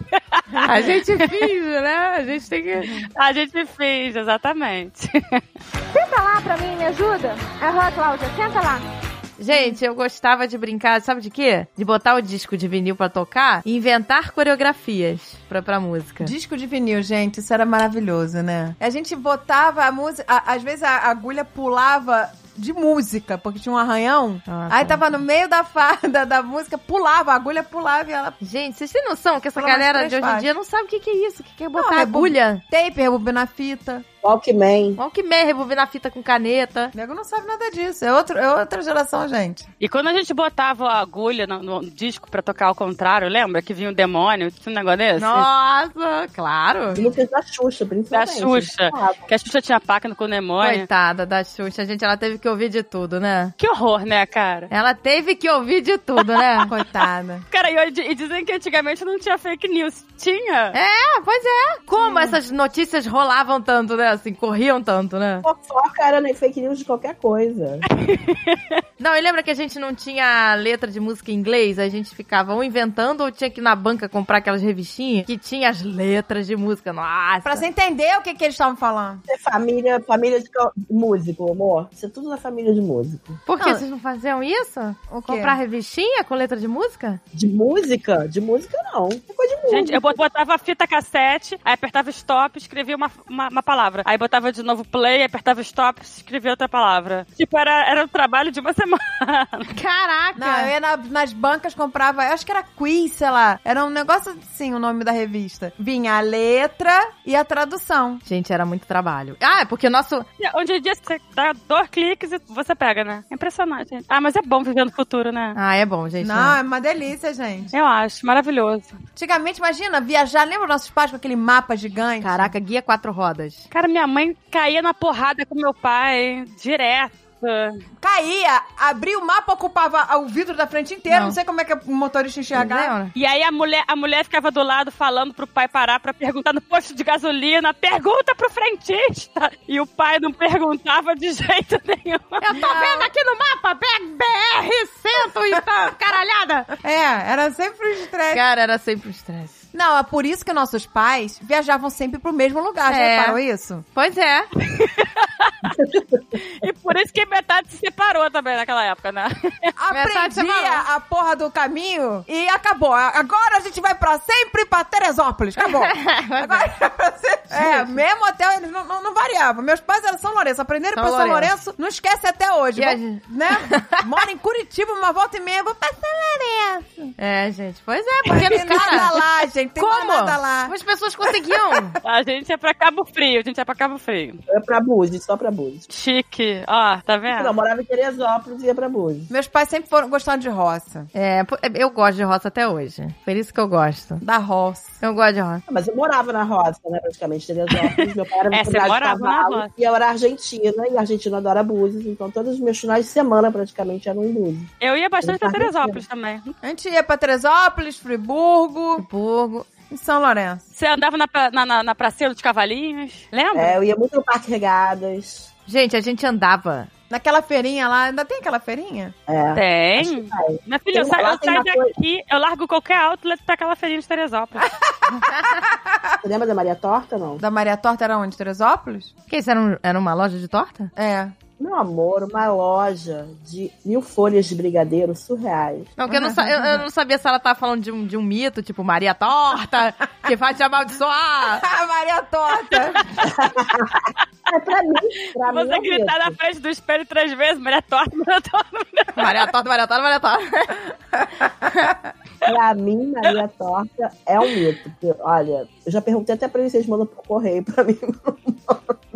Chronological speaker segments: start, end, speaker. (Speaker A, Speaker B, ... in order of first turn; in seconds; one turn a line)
Speaker A: 0.1-1.5
Speaker B: 0.6-3.0
Speaker A: 3.2-5.4
Speaker C: 5.9-8.8
Speaker B: 9.4-16.3
Speaker D: 16.2-28.4
Speaker B: 24.5-25.0
Speaker B: 28.4-32.6
Speaker D: 29.6-30.5
Speaker D: 31.7-34.0
Speaker E: 34.2-35.0
Speaker B: 35.0-36.9
Speaker D: 37.0-39.7
Speaker A: 39.8-45.5
Speaker B: 45.2-47.0
Speaker E: 46.9-49.2
Speaker A: 48.1-50.9
Speaker B: 50.6-53.5
Speaker A: 53.6-54.7
Speaker B: 54.7-56.7
Speaker D: 56.7-57.5
Speaker A: 57.5-60.8
Speaker B: 60.7-65.5
Speaker D: 62.0-62.3
Speaker E: 65.4-67.8
Speaker A: 67.9-68.8
Speaker B: 69.0-77.6
Speaker D: 77.4-79.2
Speaker E: 79.3-83.4
Speaker B: 83.5-87.2
Speaker D: 85.1-85.6
Speaker E: 87.3-90.2
Speaker A: 89.7-99.7
Speaker B: 99.7-100.7
Speaker D: 100.4-108.2
Speaker B: 108.2-110.3
Speaker A: 110.4-115.6
Speaker B: 115.5-116.6
Speaker D: 116.2-117.7
Speaker A: 117.7-119.0
Speaker D: 119.2-122.5
Speaker B: 122.2-123.7
Speaker A: 123.7-127.8
Speaker D: 128.0-132.9
Speaker B: 131.1-131.4
Speaker B: 132.5-133.1
Speaker A: 133.1-142.6
Speaker B: 142.4-146.7
Speaker D: 142.5-143.0
Speaker D: 146.8-148.4
Speaker B: 148.3-149.5
Speaker D: 149.7-153.8
Speaker B: 152.9-153.4
Speaker B: 153.9-154.5
Speaker A: 154.6-155.7
Speaker E: 155.8-156.0
Speaker A: 156.3-159.7
Speaker D: 159.8-177.1
Speaker B: 159.9-160.8
Speaker B: 165.6-166.7
Speaker B: 167.5-168.0
Speaker B: 170.9-171.5
Speaker B: 172.8-174.0
Speaker B: 177.2-179.2
Speaker D: 178.2-180.7
Speaker B: 179.8-182.0
Speaker A: 182.0-184.4
Speaker E: 184.5-185.9
Speaker A: 185.9-187.5
Speaker E: 187.3-189.3
Speaker D: 189.3-191.1
Speaker B: 191.1-194.2
Speaker D: 194.2-194.9
Speaker B: 195.0-195.6
Speaker E: 195.7-204.7
Speaker A: 197.8-199.7
Speaker A: 204.8-206.5
Speaker E: 205.2-206.0
Speaker D: 206.6-209.0
Speaker B: 209.0-209.7
Speaker D: 209.9-210.6
Speaker A: 210.7-213.8
Speaker E: 213.6-215.5
Speaker B: 215.7-216.9
Speaker D: 217.1-219.2
Speaker E: 219.3-221.9
Speaker A: 219.6-224.8
Speaker D: 225.0-225.5
Speaker E: 226.2-227.4
Speaker D: 227.4-229.1
Speaker B: 229.3-230.9
Speaker D: 230.9-231.3
Speaker E: 231.6-235.9
Speaker B: 236.0-241.6
Speaker D: 236.1-236.8
Speaker D: 241.5-243.1
Speaker E: 243.2-246.4
Speaker A: 245.3-249.3
Speaker B: 249.2-250.8
Speaker E: 252.4-259.0